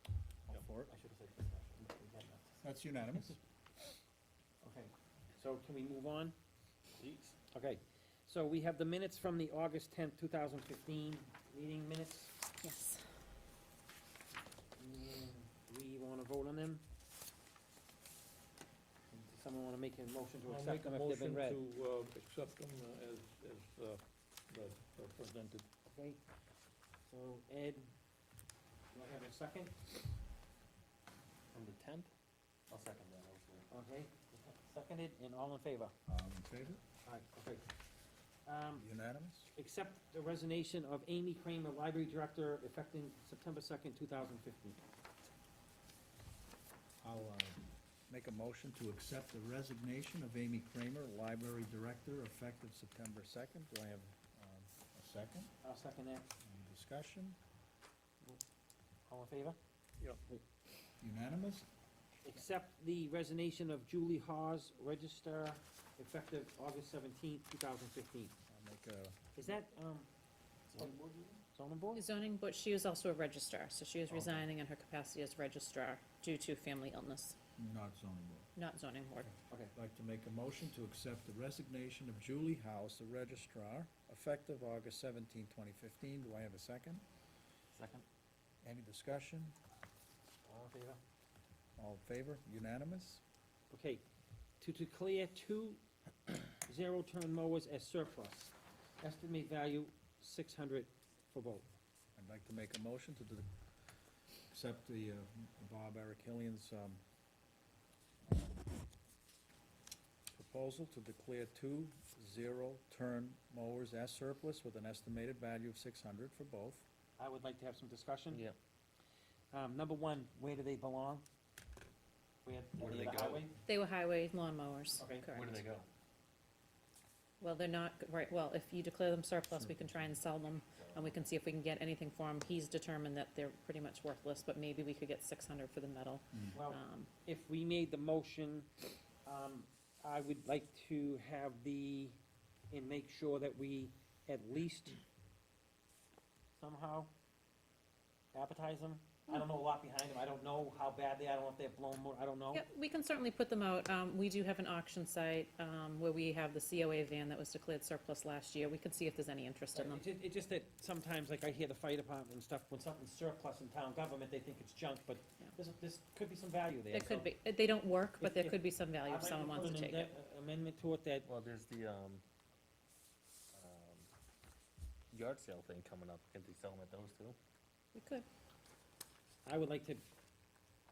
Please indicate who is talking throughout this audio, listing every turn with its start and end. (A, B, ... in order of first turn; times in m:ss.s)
0:00.5-0:00.9 A
0:01.1-0:02.4 B
0:02.6-0:03.4 A
0:04.6-0:06.4 B
0:07.0-0:07.4 C
0:07.5-0:12.3 B
0:12.6-0:13.0 D
0:14.8-0:16.8 B
0:19.1-0:21.6 B
0:20.4-0:25.7 E
0:25.9-0:26.2 B
0:27.0-0:27.9 B
0:28.9-0:29.9 B
0:31.5-0:32.1 C
0:32.7-0:33.7 C
0:33.7-0:35.9 B
0:36.1-0:36.8 A
0:37.0-0:37.7 B
0:38.4-0:38.8 B
0:38.8-0:39.5 A
0:39.5-0:44.8 B
0:47.0-0:55.5 A
0:55.6-0:56.3 B
0:56.4-0:57.4 A
0:59.1-0:59.6 B
1:01.0-1:01.7 A
1:02.2-1:08.3 B
1:08.5-1:09.2 A
1:09.3-1:10.1 B
1:10.7-1:11.2 C
1:10.7-1:12.0 B
1:11.9-1:17.4 D
1:14.1-1:14.5 A
1:17.6-1:18.5 A
1:18.6-1:19.3 D
1:19.7-1:27.0 A
1:27.7-1:28.0 C
1:28.6-1:29.6 A
1:30.4-1:31.0 B
1:31.8-1:33.2 A
1:33.7-1:34.0 B
1:34.6-1:35.8 B
1:36.6-1:41.7 B
1:42.2-1:43.5 A
1:44.5-1:47.0 A
1:50.3-1:56.8 A
1:57.2-1:58.4 B
1:59.5-2:01.2 B
2:02.4-2:03.5 B
2:02.8-2:03.5 C
2:03.6-2:05.7 D
2:05.0-2:05.2 B
2:05.3-2:05.9 C
2:07.4-2:17.1 D
2:09.5-2:10.1 A
2:10.8-2:11.2 C
2:16.5-2:18.7 B
2:19.2-2:22.2 B
2:22.7-2:25.0 B
2:26.6-2:27.1 B
2:28.3-2:32.6 B
2:32.5-2:40.0 D
2:39.7-2:47.3 B
2:46.9-2:50.1 D
2:48.2-2:51.2 B
2:51.2-2:52.2 C
2:53.5-2:54.1 C
2:55.1-2:57.4 C
2:57.9-2:58.2 D
2:59.4-3:00.0 B